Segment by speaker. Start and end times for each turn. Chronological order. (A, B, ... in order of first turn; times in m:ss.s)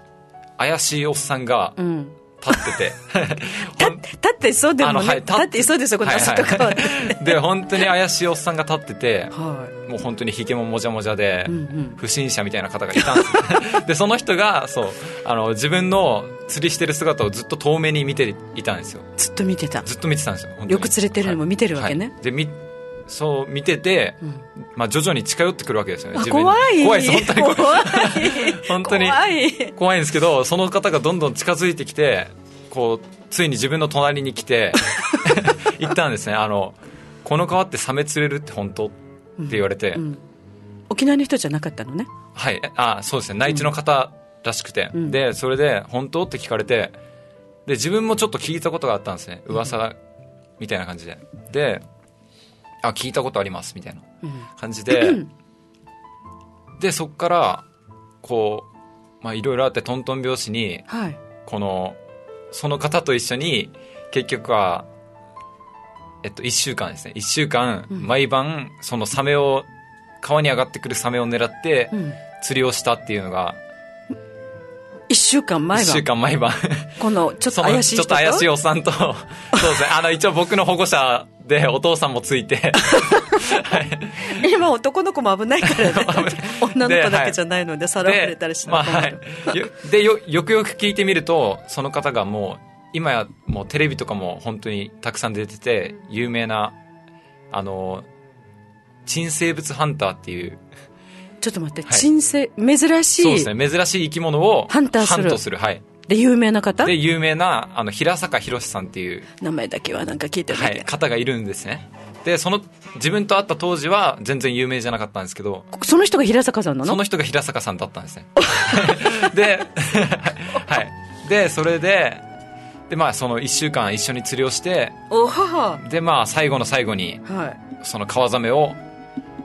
0:00.6-0:01.8 A
0:01.8-0:02.8 B
0:02.4-0:04.0 A
0:03.6-0:07.4 B
0:04.8-0:19.1 A
0:09.3-0:09.7 B
0:11.5-0:12.0 B
0:19.2-0:19.9 B
0:19.8-0:29.2 A
0:20.7-0:22.1 B
0:26.2-0:29.8 B
0:29.7-0:39.0 A
0:39.4-0:40.2 B
0:39.5-0:40.0 A
0:40.9-0:42.1 B
0:42.4-0:47.0 A
0:47.7-0:50.0 A
0:50.6-0:51.8 A
0:52.8-0:54.0 A
0:54.2-0:55.3 B
0:54.6-0:55.2 A
0:56.8-0:57.7 A
0:58.2-0:58.7 A
0:59.2-1:00.9 A
1:00.9-1:01.2 B
1:01.4-1:02.0 A
1:02.5-1:04.9 A
1:06.2-1:09.7 A
1:10.2-1:13.6 A
1:11.9-1:12.2 B
1:15.1-1:16.0 B
1:15.7-1:17.0 A
1:17.0-1:18.5 B
1:17.5-1:24.4 A
1:22.8-1:23.7 B
1:24.2-1:29.6 B
1:25.6-1:27.4 A
1:28.0-1:36.8 A
1:37.5-1:38.1 A
1:39.0-1:40.6 A
1:41.4-1:43.5 B
1:43.2-1:45.8 A
1:44.7-1:45.4 B
1:46.1-1:46.9 B
1:46.8-1:49.3 A
1:49.4-1:50.9 B
1:50.5-1:55.7 A
1:55.7-1:57.0 B
1:56.8-2:02.2 A
1:58.4-1:59.4 B
2:02.9-2:05.0 A
2:05.1-2:05.8 B
2:05.8-2:07.2 A
2:07.2-2:07.6 B
2:07.8-2:08.8 A